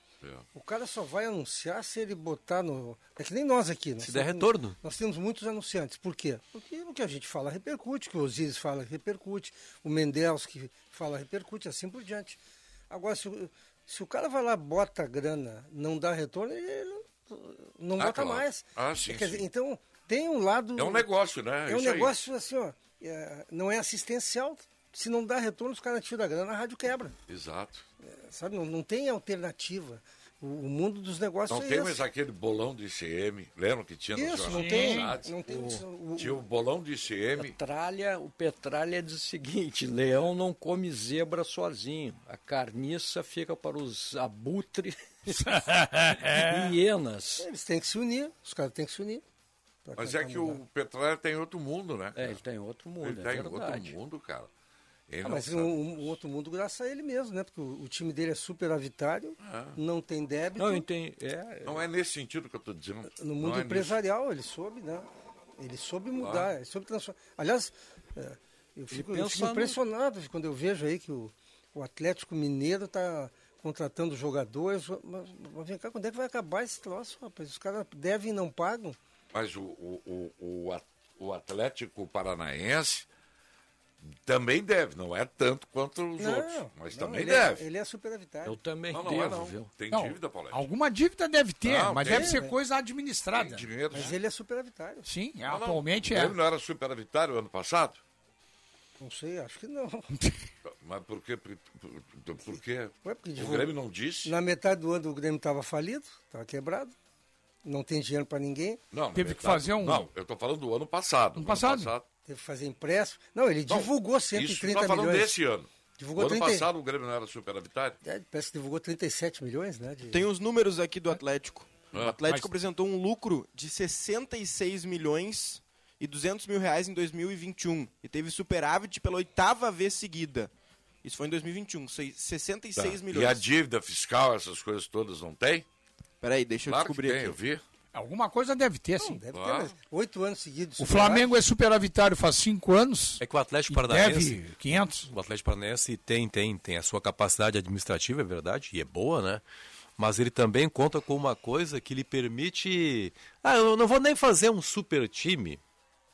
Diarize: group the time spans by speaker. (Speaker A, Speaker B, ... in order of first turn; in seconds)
Speaker A: 0.5-12.4, 12.9-21.1, 21.6-27.1, 28.0-32.0, 34.1-36.4, 47.4-49.2, 49.8-50.6, 55.2-60.9, 63.1-79.0, 86.2-88.6, 92.0-92.5, 93.9-95.1, 99.0-100.1, 103.0-106.9, 107.6-108.8, 112.2-115.3, 116.0-116.7, 118.0-120.3, 139.0-141.3
Speaker B: 4.0-4.8, 143.2-144.4, 145.1-149.4, 150.0-155.6
Speaker C: 18.0-19.4, 20.8-22.1, 27.3-27.8, 31.5-35.3, 36.1-37.5, 50.0-52.4, 53.0-54.5, 55.1-56.1, 59.4-59.8, 61.6-64.0, 66.2-66.5, 79.3-83.1, 84.0-87.6, 88.9-90.7, 91.6-92.4, 93.3-94.2, 95.4-98.0, 100.6-104.3, 108.9-112.0, 113.7-118.0, 132.7-135.7, 136.6-137.6, 139.3-139.7
Speaker D: 34.5-35.1, 45.4-46.7, 89.9-93.7, 95.0-96.4, 109.1-110.1, 111.3-111.9, 122.1-122.5, 137.9-139.2, 140.8-145.1
Speaker E: 35.5-35.8, 37.4-47.5, 52.1-53.9, 60.6-61.9, 68.9-69.8, 88.4-89.7
Speaker F: 120.1-130.5, 131.0-133.4, 136.2-137.4